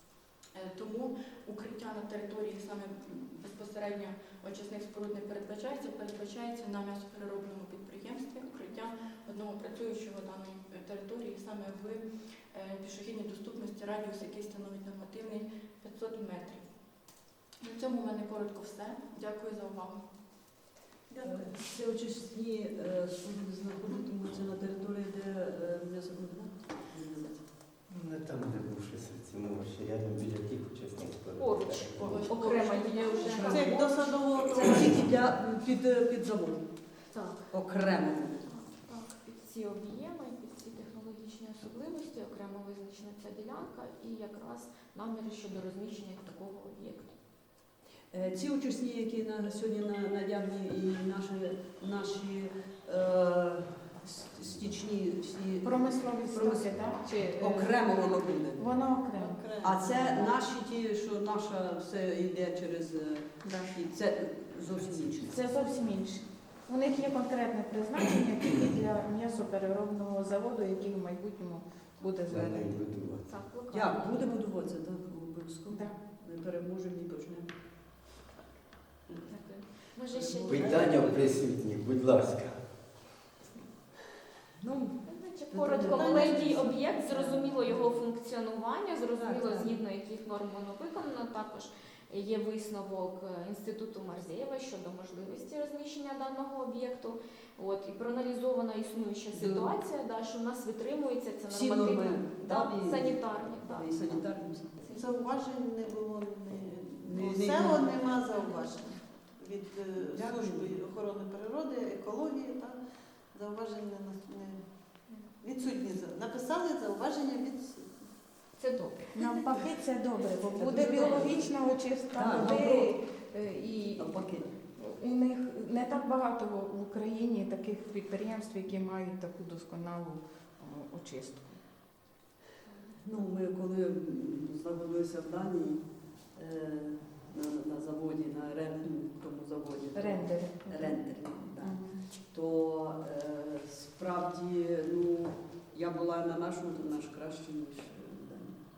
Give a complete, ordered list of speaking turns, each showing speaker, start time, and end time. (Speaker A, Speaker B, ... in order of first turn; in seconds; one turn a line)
Speaker A: 0.5-16.6
Speaker A: 17.6-20.0
Speaker B: 21.1-21.5
Speaker C: 21.2-27.3
Speaker D: 27.9-32.4
Speaker E: 31.4-34.1
Speaker A: 32.0-33.8
Speaker B: 33.2-35.1
Speaker C: 33.2-33.6
Speaker C: 34.6-36.6
Speaker E: 37.1-37.5
Speaker C: 37.5-38.5
Speaker E: 38.4-47.1
Speaker C: 48.1-58.6
Speaker F: 55.6-57.8
Speaker F: 58.6-59.5
Speaker B: 59.1-60.4
Speaker C: 59.6-65.8
Speaker F: 63.4-63.8
Speaker D: 64.8-65.2
Speaker F: 65.2-72.7
Speaker D: 72.3-73.3
Speaker E: 73.3-74.4
Speaker C: 73.7-77.5
Speaker F: 75.7-76.0
Speaker E: 79.3-81.0
Speaker C: 80.1-81.4
Speaker D: 80.4-82.6
Speaker B: 80.6-81.0
Speaker C: 84.6-85.0
Speaker E: 85.0-104.2
Speaker C: 85.5-87.7
Speaker B: 85.8-87.4
Speaker C: 89.2-89.7
Speaker C: 99.3-99.7
Speaker C: 101.5-104.8
Speaker E: 104.8-105.1
Speaker B: 104.9-112.8
Speaker C: 107.0-107.9
Speaker E: 108.3-109.0
Speaker C: 110.1-110.7
Speaker B: 113.3-114.6
Speaker B: 115.4-118.1
Speaker E: 118.6-119.1
Speaker F: 119.1-124.2
Speaker C: 120.5-121.4
Speaker E: 120.7-121.5
Speaker C: 122.1-122.9
Speaker C: 124.0-124.5
Speaker F: 124.8-131.6
Speaker C: 133.0-135.8
Speaker C: 136.3-141.8
Speaker F: 139.9-141.0
Speaker F: 141.5-142.0
Speaker C: 142.3-148.6